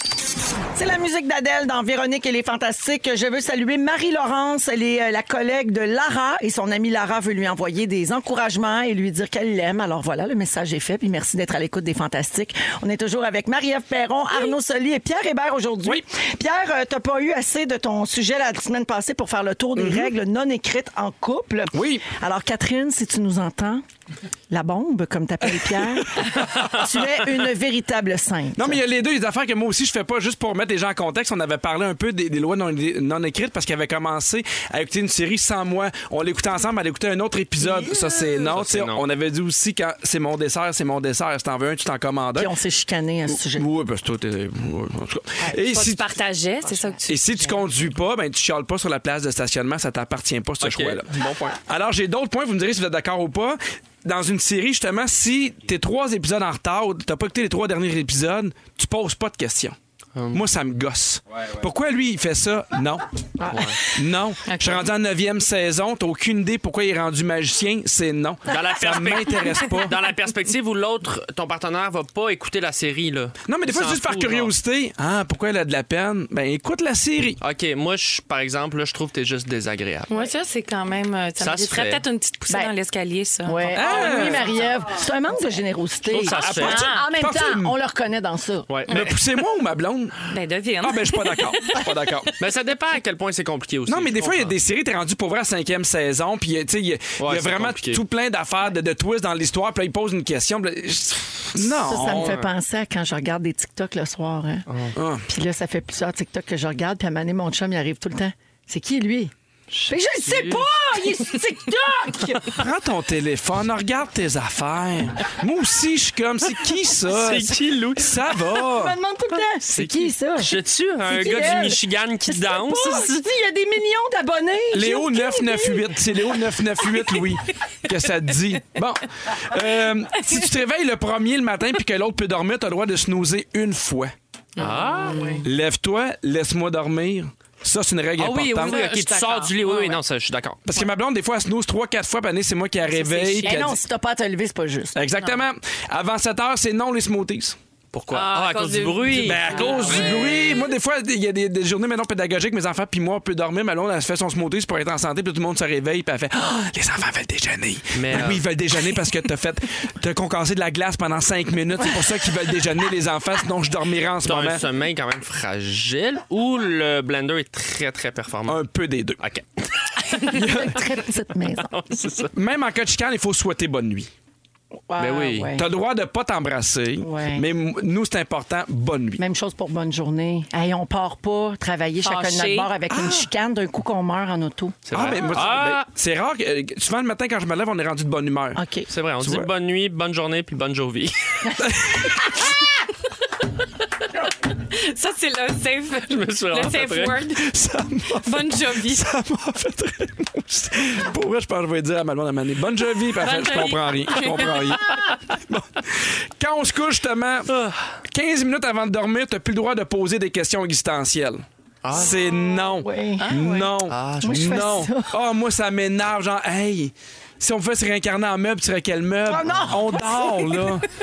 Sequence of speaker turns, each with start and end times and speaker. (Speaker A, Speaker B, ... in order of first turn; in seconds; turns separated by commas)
Speaker A: 0.8-23.8, Speaker B: 19.8-20.1, Speaker B: 21.7-22.1, Speaker A: 24.5-28.8, Speaker B: 28.6-42.5, Speaker C: 38.5-39.0, Speaker A: 42.4-43.7, Speaker B: 43.3-46.2, Speaker D: 45.5-47.4, Speaker B: 47.1-59.8, Speaker C: 50.6-51.6, Speaker C: 60.2-60.4, Speaker B: 60.3-63.0, Speaker C: 63.5-63.8, Speaker B: 63.9-70.0, Speaker D: 64.5-64.9, Speaker C: 68.5-74.5, Speaker B: 73.5-77.4, Speaker C: 77.4-80.3, Speaker D: 80.1-84.5, Speaker C: 81.4-82.0, Speaker A: 83.5-88.7, Speaker B: 83.7-84.5, Speaker C: 86.1-86.9, Speaker D: 86.3-87.1, Speaker B: 86.4-87.8, Speaker C: 88.7-89.0, Speaker B: 88.9-90.2, Speaker D: 88.9-89.2, Speaker D: 90.3-92.2, Speaker B: 90.8-92.3, Speaker C: 92.4-94.5, Speaker B: 93.9-102.4, Speaker C: 97.2-98.0, Speaker A: 101.6-104.7, Speaker C: 101.9-102.5, Speaker C: 104.7-104.9, Speaker B: 105.0-105.3, Speaker A: 105.3-109.3, Speaker C: 109.7-110.6, Speaker A: 109.9-112.6, Speaker B: 112.5-119.0, Speaker C: 117.1-118.4, Speaker A: 118.6-125.9, Speaker C: 119.6-123.2, Speaker B: 124.7-134.1, Speaker D: 130.2-130.5, Speaker C: 134.6-135.3, Speaker D: 134.6-135.4, Speaker B: 135.4-138.8, Speaker C: 138.2-140.6, Speaker D: 138.3-140.0, Speaker B: 140.7-143.8, Speaker D: 142.9-143.7, Speaker A: 143.4-145.0, Speaker B: 144.9-147.6, Speaker C: 147.9-150.3, Speaker D: 148.1-150.4, Speaker B: 149.2-164.6, Speaker C: 157.9-158.4, Speaker C: 164.2-168.6, Speaker B: 168.5-169.2, Speaker C: 169.2-170.6, Speaker B: 170.3-170.8, Speaker A: 170.3-171.7, Speaker C: 171.6-172.3, Speaker B: 172.3-174.1, Speaker A: 174.9-175.7, Speaker C: 175.0-175.5, Speaker B: 175.5-179.2, Speaker A: 177.0-177.5, Speaker A: 179.2-184.8, Speaker D: 182.0-182.7, Speaker B: 182.9-183.3, Speaker C: 184.9-185.9, Speaker B: 184.9-188.6, Speaker A: 188.6-188.9, Speaker C: 188.9-191.6, Speaker B: 189.2-189.5, Speaker B: 191.6-192.4, Speaker D: 194.5-197.5, Speaker C: 196.1-197.2, Speaker B: 197.3-207.6, Speaker D: 198.1-199.1, Speaker D: 203.1-204.6, Speaker C: 207.5-207.9, Speaker B: 208.1-220.9, Speaker C: 211.8-212.2, Speaker A: 212.5-213.3, Speaker D: 213.2-213.7, Speaker C: 213.9-214.6, Speaker A: 214.2-215.1, Speaker A: 219.3-220.6